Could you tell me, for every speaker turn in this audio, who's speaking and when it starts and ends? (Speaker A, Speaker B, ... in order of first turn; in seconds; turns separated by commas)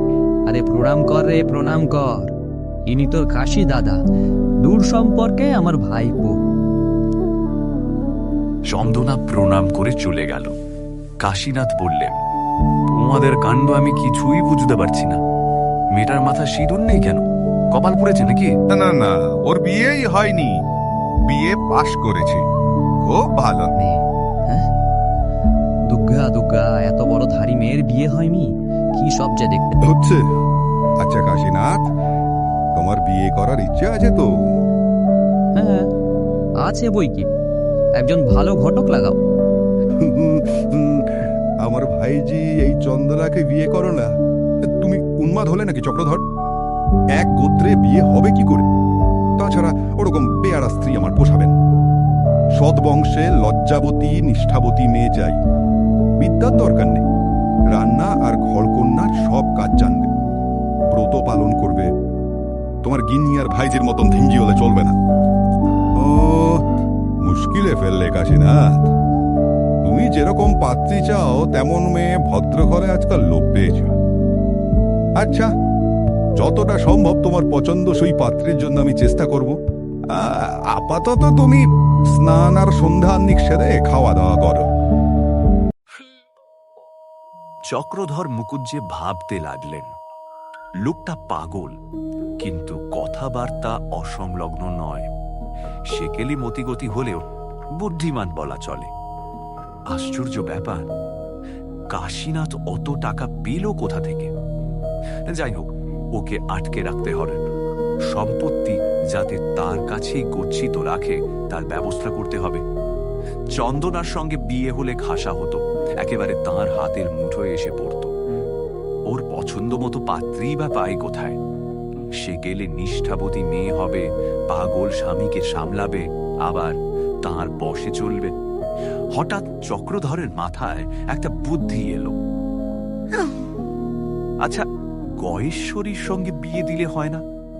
Speaker A: 0.5-2.3, Speaker A: 2.9-4.0, Speaker A: 4.6-6.3, Speaker B: 8.7-10.5, Speaker B: 11.2-12.2, Speaker B: 12.9-15.2, Speaker B: 15.9-18.5, Speaker C: 18.7-20.6, Speaker C: 21.3-22.4, Speaker C: 23.0-23.7, Speaker A: 23.8-24.7, Speaker A: 25.9-29.8, Speaker C: 29.8-30.2, Speaker C: 31.0-31.9, Speaker C: 32.7-34.3, Speaker A: 35.5-35.9, Speaker A: 36.6-37.2, Speaker A: 38.0-39.2, Speaker C: 40.0-44.1, Speaker C: 44.7-46.2, Speaker C: 47.2-48.7, Speaker C: 49.4-51.5, Speaker C: 52.6-55.4, Speaker C: 56.2-57.0, Speaker C: 57.7-60.1, Speaker C: 60.9-61.9, Speaker C: 62.8-64.9, Speaker C: 66.0-66.6, Speaker C: 67.2-68.9, Speaker C: 69.8-73.9, Speaker C: 75.2-75.5, Speaker C: 76.4-79.6, Speaker C: 80.1-81.6, Speaker C: 82.1-84.6, Speaker B: 87.7-89.9, Speaker B: 90.8-91.7, Speaker B: 92.4-95.1, Speaker B: 95.9-97.2, Speaker B: 97.8-98.9, Speaker B: 99.9-100.9, Speaker B: 101.9-104.3, Speaker B: 105.2-107.4, Speaker B: 108.1-112.6, Speaker B: 113.5-118.1, Speaker B: 119.1-121.4, Speaker B: 122.1-128.3, Speaker B: 129.1-132.2, Speaker B: 135.2-137.2